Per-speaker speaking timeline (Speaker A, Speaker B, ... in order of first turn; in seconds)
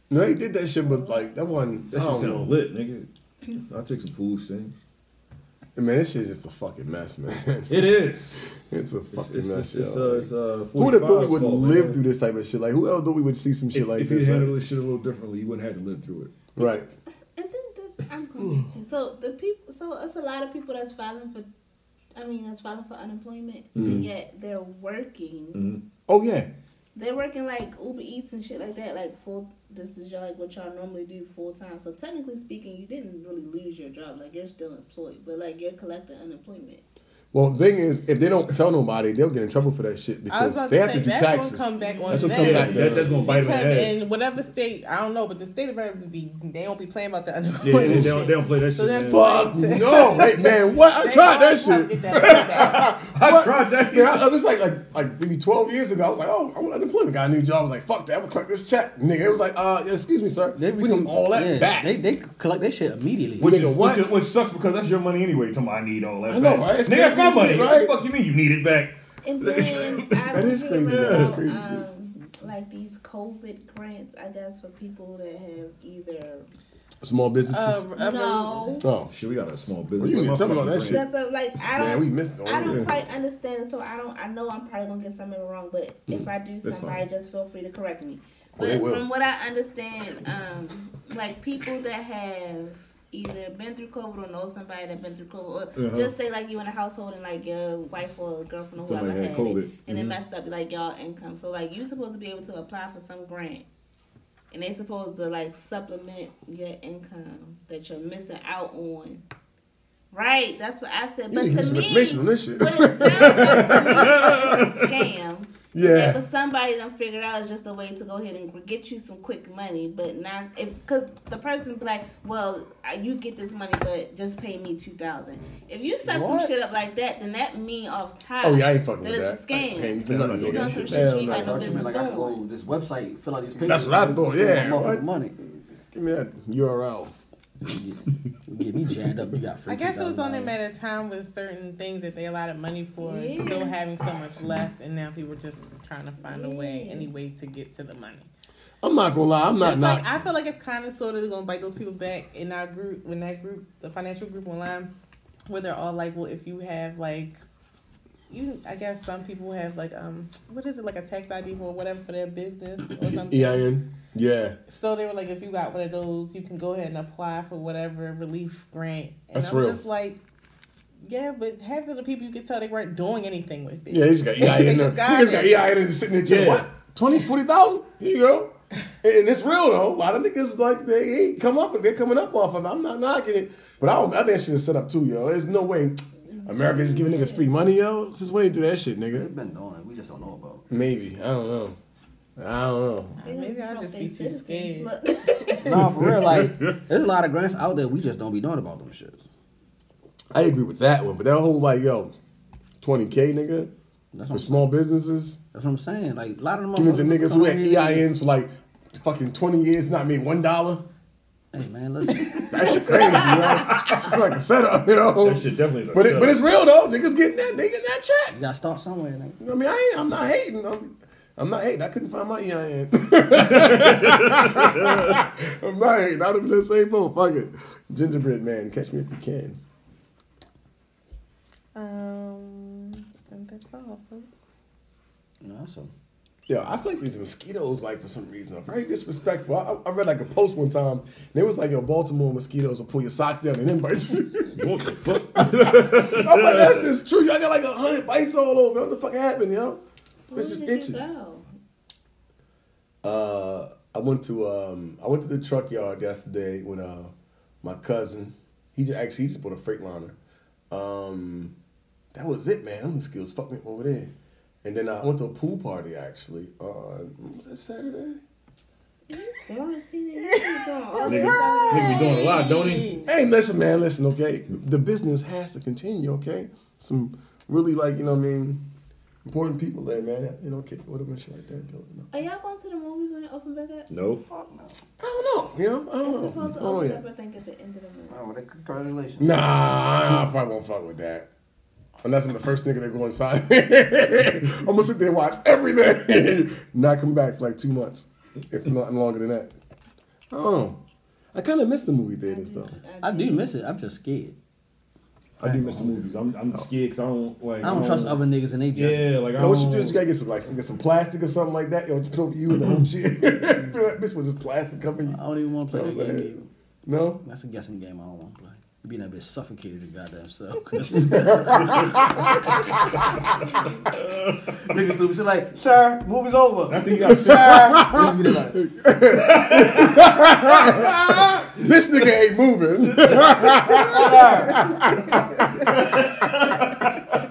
Speaker A: 0.1-2.6, 5.8-7.9, 8.5-14.6, 16.6-16.9, 23.8-24.1, 26.1-26.5, 37.3-43.1, 47.8-48.1, 49.1-62.0, 63.4-64.2, 66.3-68.0, 70.3-71.8, 77.0-77.9, 78.8-79.1, 80.0-81.0, 81.7-83.0, 88.6-89.0, 111.3-114.7, 115.7-116.2, 128.4-131.9, 133.6-135.1, 135.9-137.1, 148.8-150.1, 163.3-164.6, 169.3-169.8, 173.9-189.3, 190.7-191.8, 192.4-193.2, 200.3-202.1, 202.8-203.7, 204.3-205.4, 206.8-210.8, 212.4-218.4, 219.4-229.6, 236.5-251.0, 253.0-260.2, 260.7-261.5, 262.1-268.2, 273.1-278.6, 279.2-282.1, 285.0-287.0, 289.2-291.3, 292.0-299.5, 300.3-300.8, 301.3-302.8, 309.4-316.3, 316.9-317.2, 320.9-323.1, 327.1-335.7
Speaker B: 0.8-1.3, 17.4-21.5, 22.1-25.6, 26.9-36.8, 69.2-76.5, 78.0-78.8, 80.9-103.7, 104.5-109.2, 110.1-132.4, 143.0-143.8, 146.2-147.1, 186.3-187.5, 193.2-195.7, 250.3-251.5, 269.4-272.8, 282.1-283.9, 286.0-288.2, 302.2-303.5
Speaker C: 1.9-4.8, 7.7-8.5, 9.1-12.0, 13.7-16.6, 23.8-24.1, 25.5-25.8, 42.0-44.0, 47.6-49.5, 52.1-54.3, 63.4-71.5, 79.1-81.0, 86.6-87.0, 95.8-96.1, 98.8-100.2, 113.1-114.9, 130.1-131.1, 176.2-176.7, 196.0-196.8, 215.2-216.4, 223.4-225.2, 244.6-246.9, 271.1-273.0, 283.9-284.2, 305.4-308.2, 308.7-310.0, 312.6-312.9, 323.9-324.6, 326.7-327.8, 329.2-330.1, 335.7-337.1
Speaker D: 40.3-52.8, 77.5-78.8, 139.7-148.3, 149.6-154.9, 155.5-157.4, 158.3-163.7, 164.7-170.2, 171.0-175.7, 193.2-195.9, 231.8-234.5, 270.2-273.1
Speaker E: 60.6-63.5, 126.0-126.5, 131.2-135.4, 137.6-140.6, 189.1-190.7, 195.6-199.2, 204.1-204.7, 205.5-208.1, 211.5-212.9, 218.3-219.4, 235.4-235.9, 284.1-284.8, 288.1-289.4, 303.0-304.4, 305.4-306.1, 307.6-309.1, 315.1-316.5, 317.2-322.6, 324.6-328.6, 333.7-334.7